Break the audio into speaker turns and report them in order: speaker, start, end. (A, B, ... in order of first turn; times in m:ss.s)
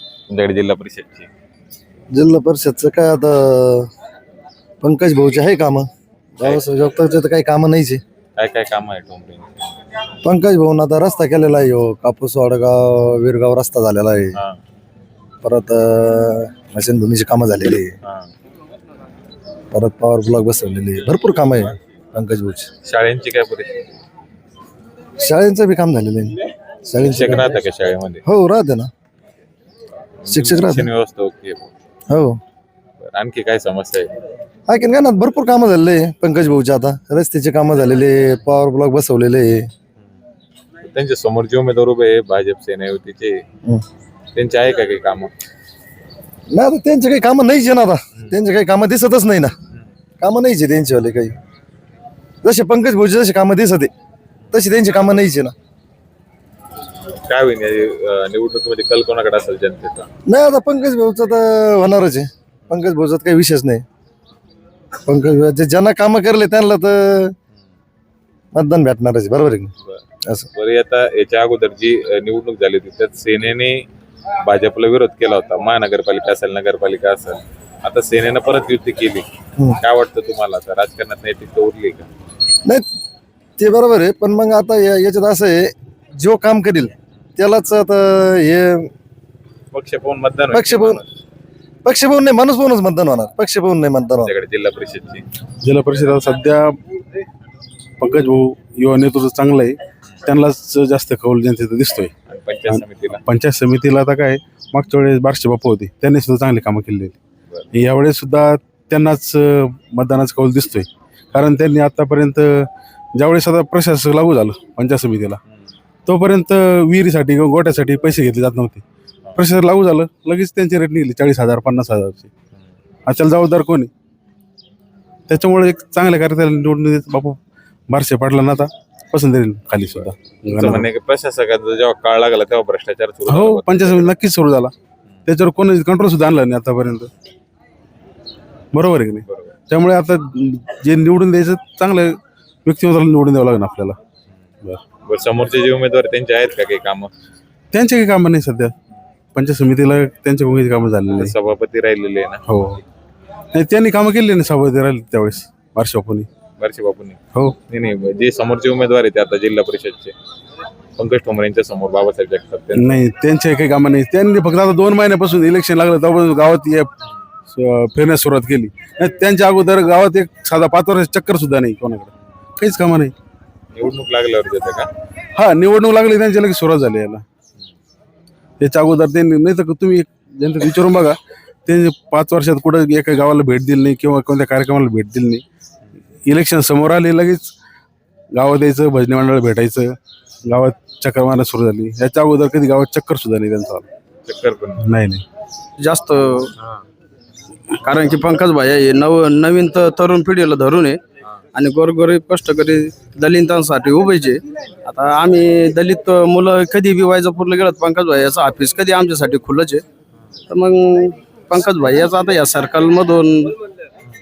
0:00.3-0:01.3 A
0:02.1-0:03.9 B
0:04.8-0:05.9 B
0:06.4-0:08.0 B
0:08.4-0:09.5 A
0:10.2-0:14.4 B
0:14.3-0:14.6 A
0:15.4-0:17.9 B
0:19.7-0:22.7 B
0:22.8-0:23.8 A
0:25.2-0:27.6 B
0:27.0-0:28.2 A
0:28.2-0:28.9 B
0:30.2-0:31.7 A
0:30.3-0:30.9 B
0:32.1-0:32.4 B
0:33.0-0:34.1 A
0:34.7-0:39.7 B
0:40.8-0:43.4 A
0:44.3-0:45.3 A
0:46.5-0:49.5 B
0:50.2-0:51.3 B
0:52.4-0:53.9 B
0:54.5-0:55.5 B
0:57.2-1:00.1 A
1:00.3-1:03.8 B
1:05.1-1:07.3 B
1:08.5-1:09.7 B
1:10.5-1:13.8 A
1:14.4-1:22.1 A
1:23.6-1:28.9 B
1:29.7-1:31.0 A
1:30.5-1:31.0 B
1:31.8-1:34.3 B
1:34.2-1:35.2 A
1:35.6-1:36.8 C
1:38.0-1:42.1 C
1:42.3-1:43.2 A
1:42.7-1:47.1 C
1:47.7-1:55.4 C
1:56.0-1:58.8 C
1:59.4-2:02.3 C
2:03.1-2:03.9 C
2:05.3-2:10.9 C
2:09.9-2:14.1 A
2:13.3-2:14.7 C
2:15.3-2:17.1 C
2:18.7-2:24.0 C
2:19.3-2:19.5 A
2:25.0-2:27.1 A
2:27.7-2:28.7 C
2:29.3-2:31.3 C
2:31.1-2:32.4 A
2:32.5-2:32.8 C
2:33.5-2:36.3 C
2:36.6-2:40.1 A
2:41.0-2:43.0 A
2:42.8-2:46.9 C
2:47.5-2:53.1 C
2:53.7-2:54.9 A
2:55.4-2:57.2 C
2:58.6-3:05.4 C
3:06.3-3:07.5 C
3:08.4-3:10.0 C
3:10.5-3:13.8 C
3:14.3-3:14.8 A
3:14.8-3:15.2 C
3:15.8-3:16.5 D
3:17.8-3:21.0 D
3:21.5-3:29.8 D
3:30.5-3:33.6 D